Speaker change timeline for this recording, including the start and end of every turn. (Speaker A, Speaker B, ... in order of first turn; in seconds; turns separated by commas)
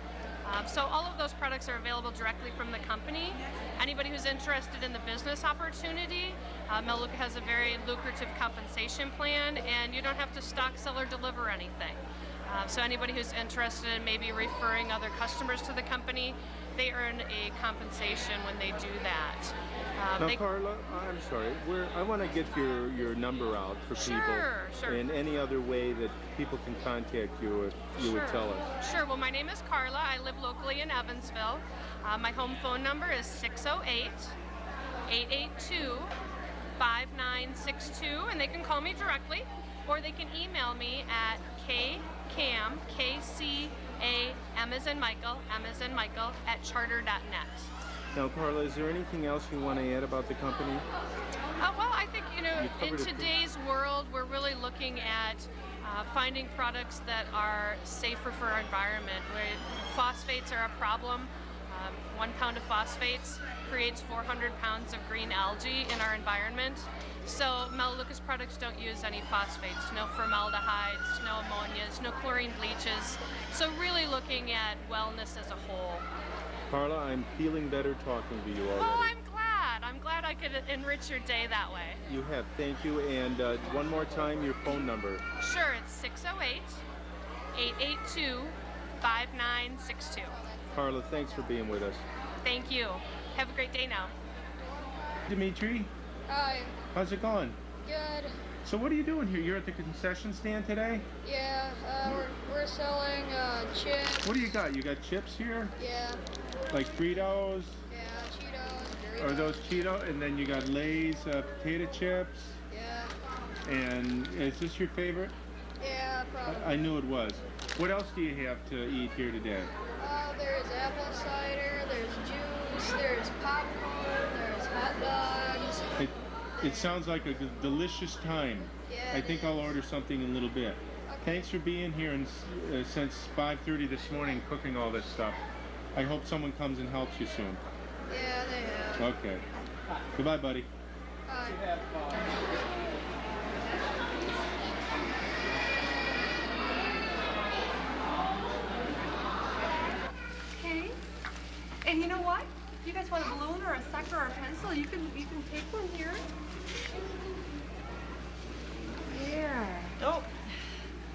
Speaker A: 0.4-20.4, Speaker B: 20.2-28.7, Speaker A: 24.0-25.0, Speaker A: 27.9-34.3, Speaker A: 35.1-36.1, Speaker A: 36.8-47.7, Speaker B: 48.1-50.9, Speaker A: 51.6-76.1, Speaker B: 52.5-53.3, Speaker B: 76.7-79.1, Speaker A: 78.8-82.0, Speaker B: 82.1-85.2, Speaker A: 85.4-86.8, Speaker A: 87.5-90.4, Speaker C: 90.4-91.3, Speaker B: 90.7-92.0, Speaker A: 92.4-94.1, Speaker C: 94.7-95.2, Speaker B: 95.3-95.9, Speaker C: 96.3-96.8, Speaker B: 96.9-97.6, Speaker C: 97.8-98.3, Speaker B: 98.6-101.1, Speaker C: 101.2-104.3, Speaker B: 104.2-105.7, Speaker C: 105.8-106.2, Speaker B: 106.7-107.8, Speaker C: 107.9-109.8, Speaker B: 109.2-112.6, Speaker C: 112.7-113.1, Speaker B: 113.7-115.3, Speaker C: 115.8-116.8, Speaker B: 116.4-119.7, Speaker C: 120.0-125.8, Speaker B: 126.0-135.4, Speaker C: 128.9-129.7, Speaker C: 131.1-131.5, Speaker B: 135.9-137.6, Speaker C: 138.1-139.1, Speaker B: 139.0-139.4, Speaker B: 140.1-140.7, Speaker C: 141.3-141.7, Speaker D: 150.6-151.0, Speaker D: 151.8-156.3, Speaker D: 159.1-160.3